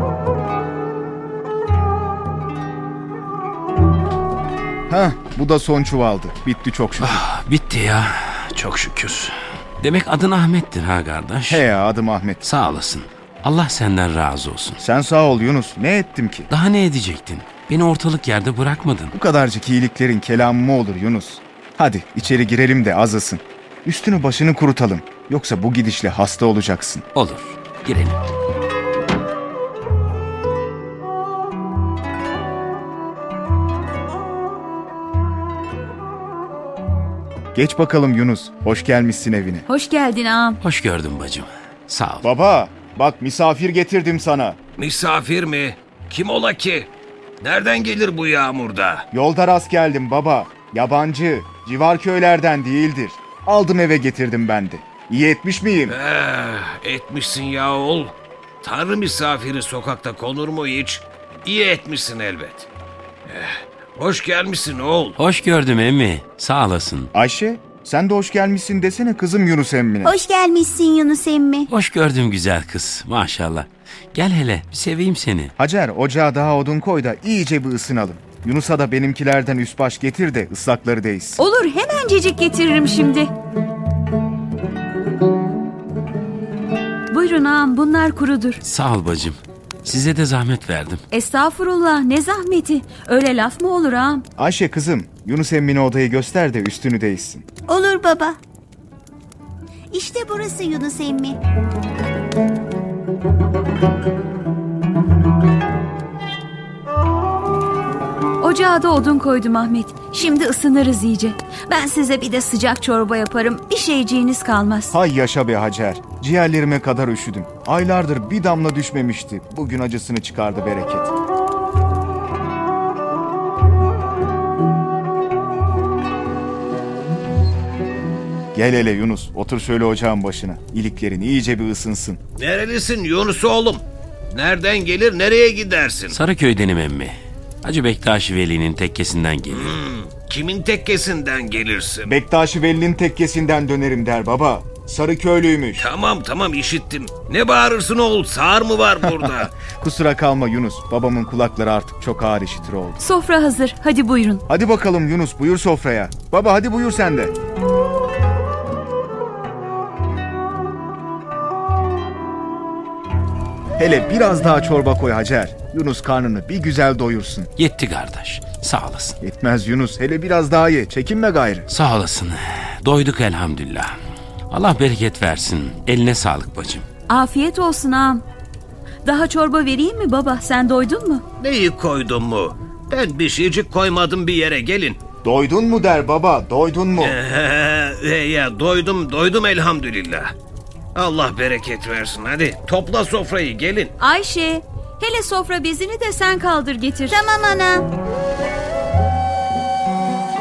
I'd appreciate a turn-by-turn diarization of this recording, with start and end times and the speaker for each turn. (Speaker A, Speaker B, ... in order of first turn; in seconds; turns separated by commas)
Speaker A: 4.9-7.2, Speaker B: 7.0-11.6, Speaker A: 11.5-12.4, Speaker B: 12.4-14.8, Speaker A: 14.8-16.5, Speaker B: 16.5-19.1, Speaker A: 19.1-27.0, Speaker B: 27.1-28.2, Speaker A: 37.5-39.6, Speaker C: 39.7-40.6, Speaker B: 40.6-42.3, Speaker A: 42.2-44.6, Speaker D: 44.8-46.9, Speaker D: 47.4-49.0, Speaker A: 49.1-56.0, Speaker D: 55.9-62.7, Speaker D: 63.3-65.2, Speaker B: 65.2-67.1, Speaker A: 67.1-70.2, Speaker E: 70.0-71.7, Speaker B: 71.7-75.5, Speaker A: 75.6-81.4, Speaker C: 81.4-83.3, Speaker C: 87.1-88.6, Speaker B: 88.6-91.0, Speaker C: 91.1-94.2, Speaker A: 94.4-97.5, Speaker E: 97.7-98.4, Speaker E: 99.9-101.4, Speaker C: 108.4-114.9, Speaker A: 114.9-121.1, Speaker A: 128.5-132.2, Speaker D: 132.4-136.1, Speaker B: 136.1-139.7, Speaker D: 139.5-142.1, Speaker A: 142.1-145.9, Speaker D: 145.8-149.5, Speaker A: 149.0-153.0, Speaker C: 153.0-154.4, Speaker A: 154.5-157.3, Speaker A: 163.8-167.5, Speaker B: 167.6-169.2, Speaker A: 169.2-171.7, Speaker B: 171.7-173.9, Speaker B: 174.5-176.9, Speaker C: 177.1-178.2, Speaker C: 179.0-181.2, Speaker D: 181.4-185.0, Speaker A: 185.2-187.2, Speaker D: 187.0-190.3, Speaker D: 190.9-193.9, Speaker C: 194.0-197.2, Speaker E: 197.1-197.9